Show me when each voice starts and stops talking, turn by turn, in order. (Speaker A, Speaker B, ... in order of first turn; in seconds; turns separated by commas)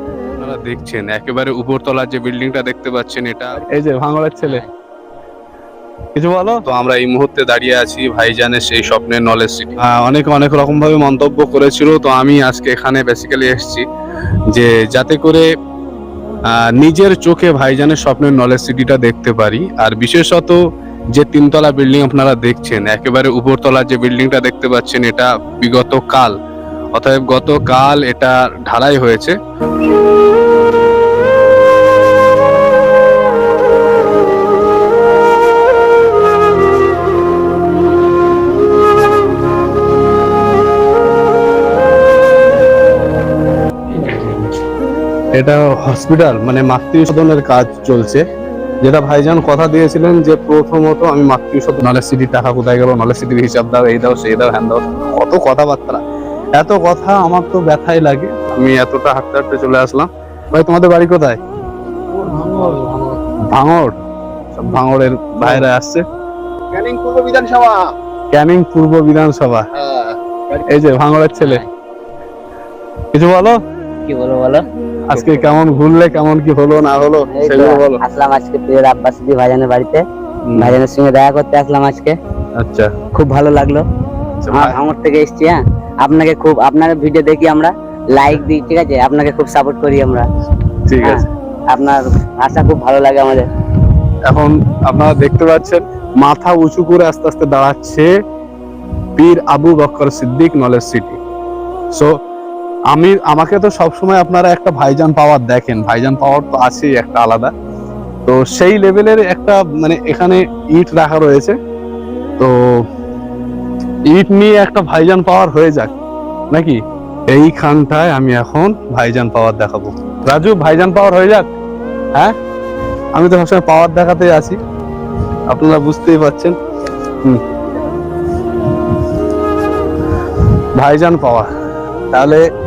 Speaker A: 0.4-4.6, Speaker B: 4.4-4.7, Speaker A: 6.2-13.9, Speaker A: 14.5-15.5, Speaker A: 16.5-20.6, Speaker A: 21.1-26.4, Speaker A: 26.9-29.4, Speaker A: 43.9-44.5, Speaker A: 45.4-48.2, Speaker A: 48.8-56.0, Speaker A: 56.6-61.4, Speaker C: 62.1-63.2, Speaker A: 63.5-64.0, Speaker A: 64.5-66.0, Speaker C: 66.7-67.9, Speaker A: 68.3-69.7, Speaker C: 69.8-70.6, Speaker A: 70.7-71.6, Speaker B: 71.4-71.7, Speaker A: 73.1-73.6, Speaker B: 74.1-74.6, Speaker A: 75.1-78.0, Speaker B: 75.1-75.5, Speaker B: 77.3-80.0, Speaker A: 80.5-80.8, Speaker B: 80.6-82.2, Speaker A: 82.6-82.9, Speaker B: 83.1-83.8, Speaker A: 84.4-84.8, Speaker B: 84.5-90.3, Speaker A: 90.9-91.2, Speaker B: 91.0-93.5, Speaker A: 94.3-98.1, Speaker A: 99.2-101.2, Speaker A: 102.9-107.5, Speaker A: 108.3-111.6, Speaker A: 114.1-115.9, Speaker A: 116.5-121.5, Speaker A: 123.2-124.6, Speaker A: 125.5-126.5, Speaker A: 130.8-131.5, Speaker A: 132.1-132.4